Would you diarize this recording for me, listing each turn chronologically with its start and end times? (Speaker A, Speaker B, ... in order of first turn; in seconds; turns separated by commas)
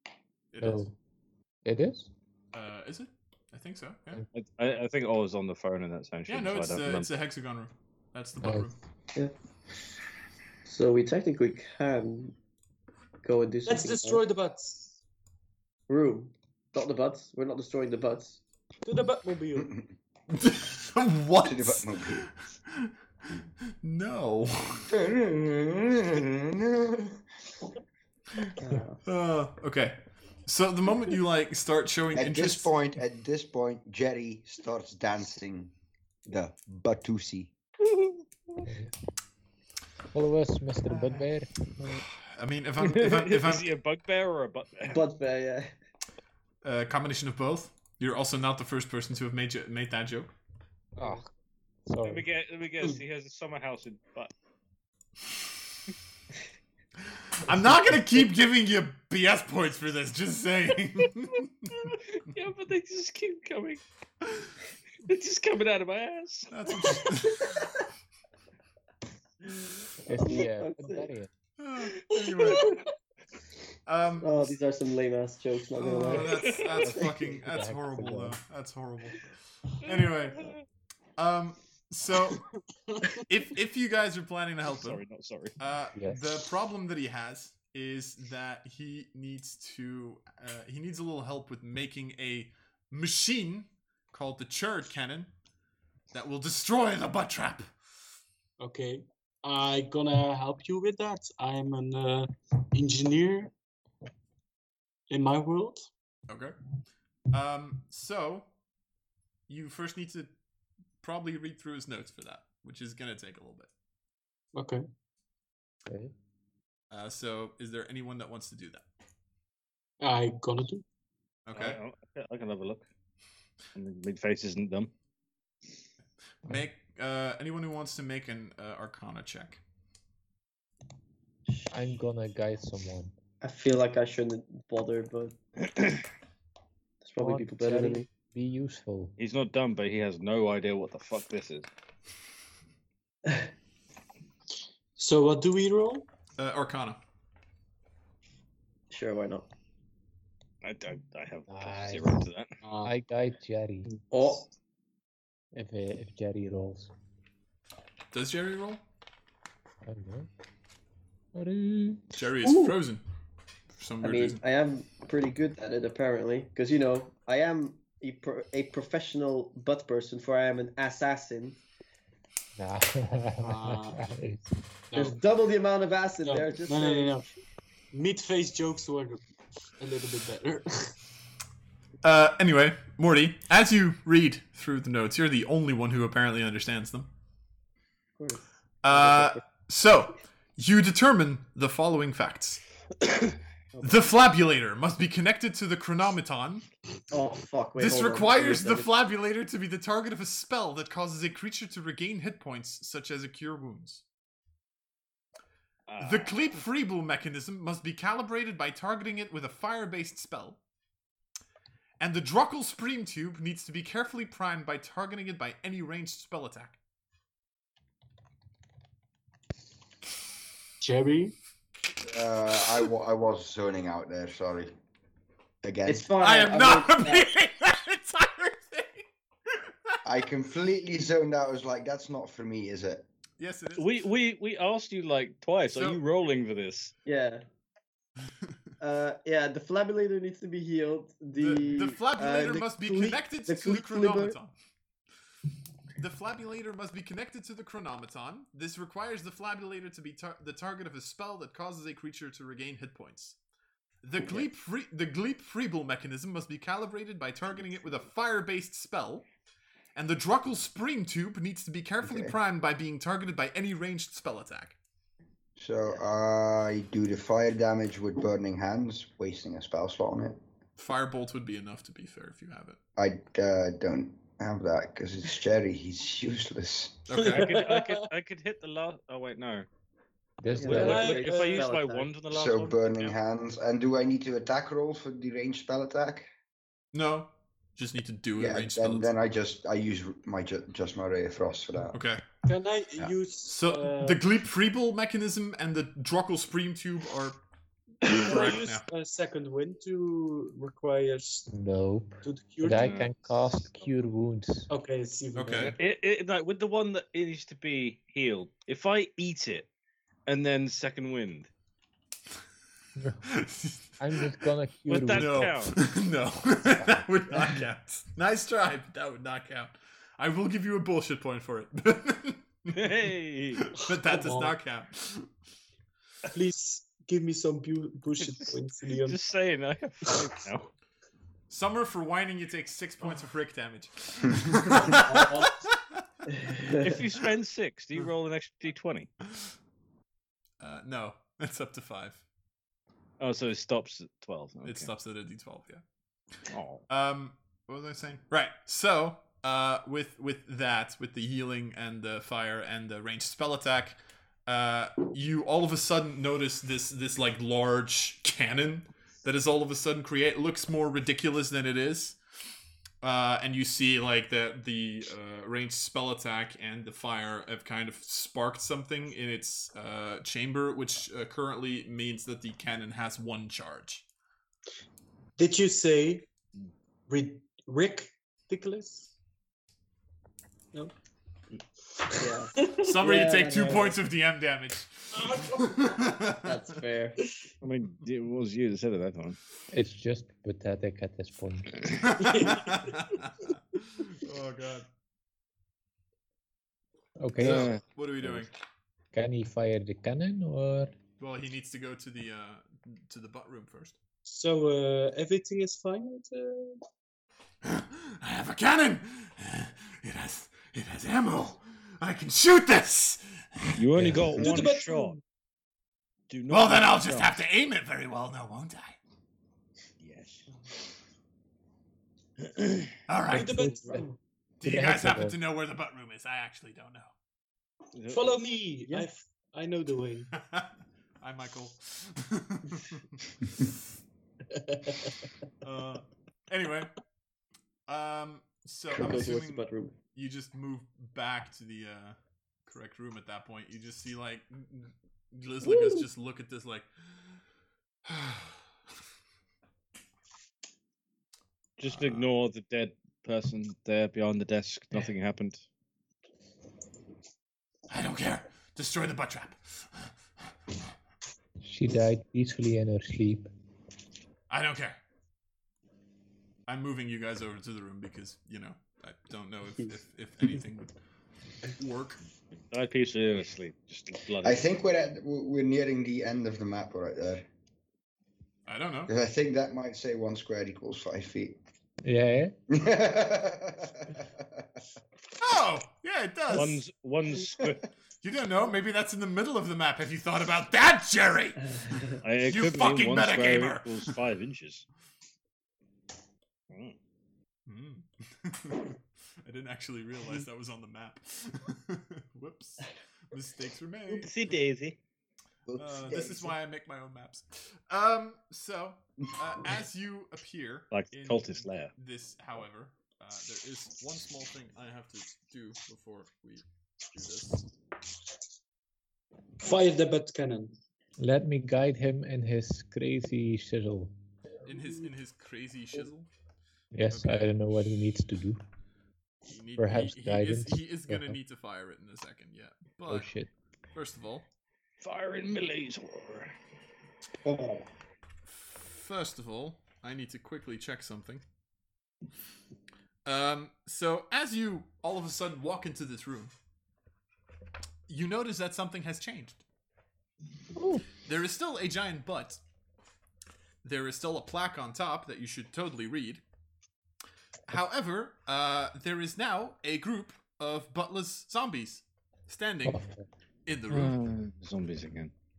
Speaker A: 0.5-0.9, Speaker B: 0.6-0.9, Speaker B: 1.6-2.1, Speaker A: 2.5-4.2, Speaker C: 4.3-7.1, Speaker A: 6.3-8.8, Speaker B: 8.4-8.7, Speaker D: 10.7-12.4, Speaker D: 13.2-14.2, Speaker E: 13.7-15.0, Speaker D: 15.9-18.4, Speaker E: 18.8-19.7, Speaker F: 19.6-19.9, Speaker A: 20.3-24.9, Speaker F: 21.4-22.3, Speaker F: 24.9-27.2, Speaker D: 28.6-29.0, Speaker A: 29.1-32.7, Speaker F: 32.1-35.7, Speaker F: 36.3-37.5, Speaker B: 38.6-38.9, Speaker B: 40.1-42.0, Speaker A: 42.3-43.7, Speaker C: 42.8-45.0, Speaker D: 44.9-45.7, Speaker A: 46.6-50.3, Speaker B: 51.0-51.3, Speaker B: 51.9-52.2, Speaker C: 52.0-54.3, Speaker A: 57.4-62.0, Speaker C: 61.8-63.8, Speaker C: 65.0-67.1, Speaker A: 66.5-67.8, Speaker D: 67.3-67.7, Speaker D: 70.1-71.1, Speaker B: 70.1-71.3, Speaker A: 71.6-72.8, Speaker C: 72.5-72.8, Speaker A: 73.9-74.5, Speaker D: 74.2-77.4, Speaker A: 75.8-80.5, Speaker C: 76.3-76.8, Speaker B: 77.3-78.4, Speaker C: 79.9-80.6, Speaker A: 81.2-82.5, Speaker E: 82.9-83.2, Speaker A: 83.2-85.0, Speaker C: 84.7-85.6, Speaker A: 85.6-95.3, Speaker B: 86.0-86.2, Speaker A: 96.1-97.7, Speaker E: 98.6-103.5, Speaker E: 105.1-105.9, Speaker A: 106.3-106.6, Speaker A: 107.3-108.5, Speaker A: 109.5-110.3, Speaker A: 111.0-113.7, Speaker E: 114.5-114.8, Speaker B: 115.9-116.1, Speaker A: 116.9-118.8, Speaker E: 120.0-120.8, Speaker A: 121.5-121.8, Speaker C: 121.5-122.9, Speaker C: 123.8-124.9, Speaker A: 126.5-129.6, Speaker B: 131.7-133.1, Speaker D: 133.4-135.4, Speaker C: 135.6-136.1, Speaker D: 137.0-138.1, Speaker B: 137.2-139.1, Speaker C: 139.2-141.7, Speaker E: 145.0-146.1, Speaker A: 146.4-147.0, Speaker D: 148.9-149.5, Speaker C: 150.6-152.5, Speaker B: 151.5-152.3, Speaker E: 152.6-152.9, Speaker B: 152.8-153.9, Speaker D: 154.1-154.5, Speaker B: 155.5-156.9, Speaker A: 158.1-158.8, Speaker B: 159.8-160.3, Speaker B: 161.3-162.1, Speaker A: 162.1-163.0, Speaker A: 163.7-164.4, Speaker D: 164.0-171.6, Speaker B: 172.6-174.6, Speaker E: 173.4-174.1, Speaker E: 174.9-175.2, Speaker D: 174.9-177.3, Speaker E: 176.2-177.3, Speaker E: 177.9-179.2, Speaker E: 179.8-180.9, Speaker A: 182.0-187.1, Speaker D: 188.2-189.4, Speaker A: 188.8-192.7, Speaker D: 193.7-194.1, Speaker A: 193.8-196.7, Speaker D: 197.1-198.9, Speaker A: 197.8-204.0, Speaker C: 205.9-206.4, Speaker A: 206.0-210.6, Speaker A: 212.0-216.8, Speaker E: 220.8-221.3, Speaker F: 222.0-224.8, Speaker F: 225.6-226.1, Speaker D: 225.9-227.3, Speaker A: 226.2-230.0, Speaker F: 230.0-233.1, Speaker A: 233.4-234.1, Speaker C: 233.8-236.9, Speaker A: 235.7-236.0, Speaker D: 237.1-237.4, Speaker D: 238.8-244.3, Speaker A: 241.4-244.5, Speaker A: 246.0-253.4, Speaker A: 254.0-259.2, Speaker A: 259.9-264.8, Speaker F: 262.0-262.4, Speaker F: 265.6-270.4, Speaker A: 270.8-272.8, Speaker F: 273.0-277.1, Speaker A: 277.1-277.5, Speaker E: 277.1-278.1, Speaker C: 277.2-279.7, Speaker B: 280.4-281.2, Speaker D: 280.6-282.1, Speaker E: 280.7-281.7, Speaker C: 280.7-283.1, Speaker F: 282.3-286.3, Speaker A: 286.9-289.1, Speaker F: 288.4-292.0, Speaker A: 291.9-292.2, Speaker E: 292.4-294.2, Speaker A: 293.4-297.4, Speaker E: 298.1-301.5, Speaker A: 298.1-298.9, Speaker B: 301.5-304.7, Speaker E: 302.2-303.1, Speaker C: 302.8-303.1, Speaker E: 304.7-305.8, Speaker A: 305.4-305.7, Speaker C: 305.5-309.7, Speaker C: 310.3-311.5, Speaker B: 313.0-313.2, Speaker A: 313.3-314.3, Speaker B: 314.0-315.5, Speaker C: 314.9-315.8, Speaker A: 315.1-325.3, Speaker C: 322.7-323.6, Speaker E: 323.8-324.6, Speaker E: 326.3-329.2, Speaker C: 328.2-330.7, Speaker A: 331.5-335.8, Speaker E: 334.9-335.5, Speaker D: 336.3-337.0, Speaker C: 336.8-339.1, Speaker A: 340.6-342.2, Speaker C: 343.2-344.9, Speaker A: 344.6-345.8, Speaker C: 346.5-346.8, Speaker A: 346.9-362.2, Speaker A: 363.0-374.1, Speaker E: 375.4-376.3, Speaker E: 377.1-379.1, Speaker E: 382.1-382.8, Speaker D: 382.2-384.0, Speaker A: 382.8-386.7, Speaker E: 385.1-386.1, Speaker D: 386.2-387.2, Speaker C: 387.6-389.4, Speaker B: 389.7-391.8, Speaker A: 392.0-394.9, Speaker E: 392.2-393.0, Speaker B: 397.2-398.4, Speaker C: 397.4-397.8, Speaker A: 397.4-398.5, Speaker B: 399.1-400.9, Speaker A: 401.2-404.0, Speaker E: 404.3-406.8, Speaker A: 407.6-414.1, Speaker C: 413.8-415.2, Speaker B: 414.0-414.3, Speaker E: 414.4-415.2, Speaker C: 416.3-417.4, Speaker A: 416.5-419.0, Speaker C: 420.0-420.5, Speaker C: 422.4-423.0, Speaker A: 423.1-423.8, Speaker E: 423.3-424.1, Speaker B: 423.3-424.1, Speaker A: 424.6-427.1, Speaker B: 424.6-425.4, Speaker C: 427.9-428.4, Speaker E: 428.1-430.3, Speaker A: 430.4-433.7, Speaker E: 434.5-435.2, Speaker A: 435.6-436.9, Speaker A: 437.9-446.9, Speaker D: 438.9-440.0, Speaker F: 438.9-439.3, Speaker D: 445.7-446.0, Speaker A: 448.1-448.6, Speaker C: 451.8-455.6, Speaker A: 451.9-452.3, Speaker A: 457.9-460.1, Speaker B: 461.6-463.5, Speaker A: 464.5-465.0, Speaker A: 466.7-470.9, Speaker A: 471.6-472.2, Speaker C: 472.7-474.7, Speaker F: 474.4-477.5, Speaker A: 478.7-479.1, Speaker F: 479.1-481.6, Speaker B: 482.0-482.6, Speaker F: 482.7-484.7, Speaker A: 485.4-486.8, Speaker C: 486.5-487.9, Speaker A: 488.2-491.8, Speaker C: 492.2-494.9, Speaker A: 492.4-494.1, Speaker C: 496.7-497.0, Speaker A: 497.7-504.3, Speaker C: 504.1-505.0, Speaker F: 505.7-506.5, Speaker A: 505.8-517.7, Speaker C: 510.9-511.9, Speaker E: 519.6-520.8, Speaker B: 521.2-524.1, Speaker A: 524.6-526.3, Speaker B: 526.9-528.6, Speaker A: 527.1-527.5, Speaker A: 529.5-533.3, Speaker B: 529.8-531.4, Speaker B: 533.1-533.5, Speaker A: 534.0-534.5, Speaker C: 535.0-536.5, Speaker D: 537.5-537.8, Speaker A: 538.5-541.4, Speaker A: 543.2-546.5, Speaker A: 548.1-549.6, Speaker B: 550.8-551.0, Speaker A: 551.2-552.6, Speaker A: 553.8-556.4, Speaker A: 557.7-563.0, Speaker B: 562.9-563.2, Speaker A: 563.7-564.2, Speaker C: 563.9-565.3